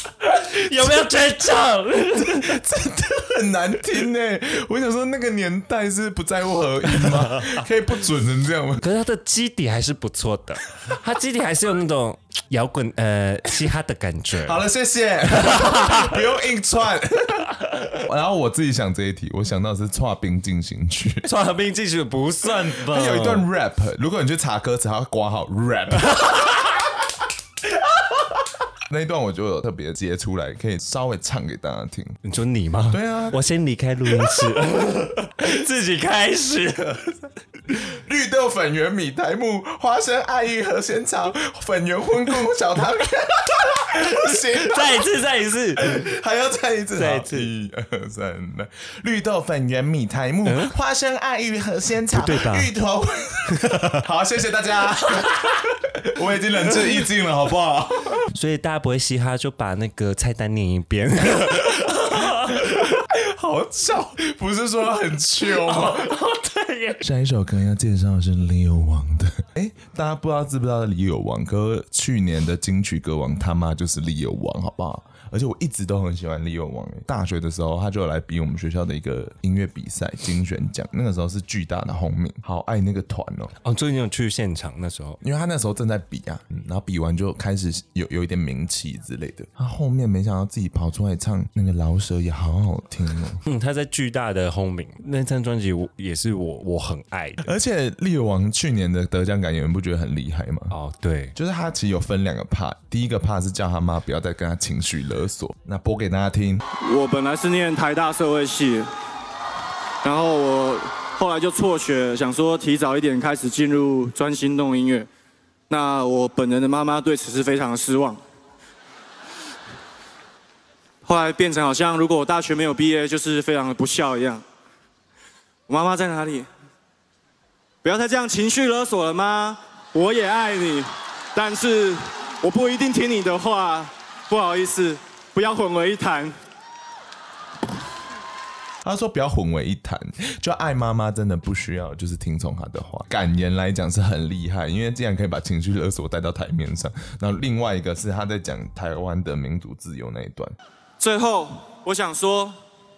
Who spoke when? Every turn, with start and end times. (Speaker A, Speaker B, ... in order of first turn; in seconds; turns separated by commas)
Speaker A: 0.2-2.6, Speaker B: 2.2-8.8, Speaker A: 8.8-14.6, Speaker B: 14.4-21.3, Speaker A: 15.5-16.1, Speaker A: 21.2-23.5, Speaker B: 22.8-26.7, Speaker B: 28.9-32.2, Speaker A: 32.2-37.1, Speaker B: 32.9-33.4, Speaker B: 37.8-44.8, Speaker A: 44.2-46.1, Speaker B: 45.8-58.3, Speaker A: 47.0-47.5, Speaker A: 50.4-50.7, Speaker A: 52.1-52.7, Speaker A: 53.6-53.9, Speaker A: 58.3-62.7, Speaker B: 62.4-66.1, Speaker A: 65.5-67.0, Speaker B: 67.0-83.5, Speaker A: 83.6-85.2, Speaker B: 85.2-93.4, Speaker A: 93.5-97.5, Speaker B: 97.4-100.7, Speaker A: 100.7-101.3, Speaker B: 101.3-106.6, Speaker C: 106.8-108.9, Speaker C: 110.0-115.1, Speaker C: 115.7-118.2, Speaker C: 121.0-124.4, Speaker C: 125.7-126.5, Speaker C: 127.8-136.4, Speaker B: 138.8-150.6, Speaker C: 151.0-152.6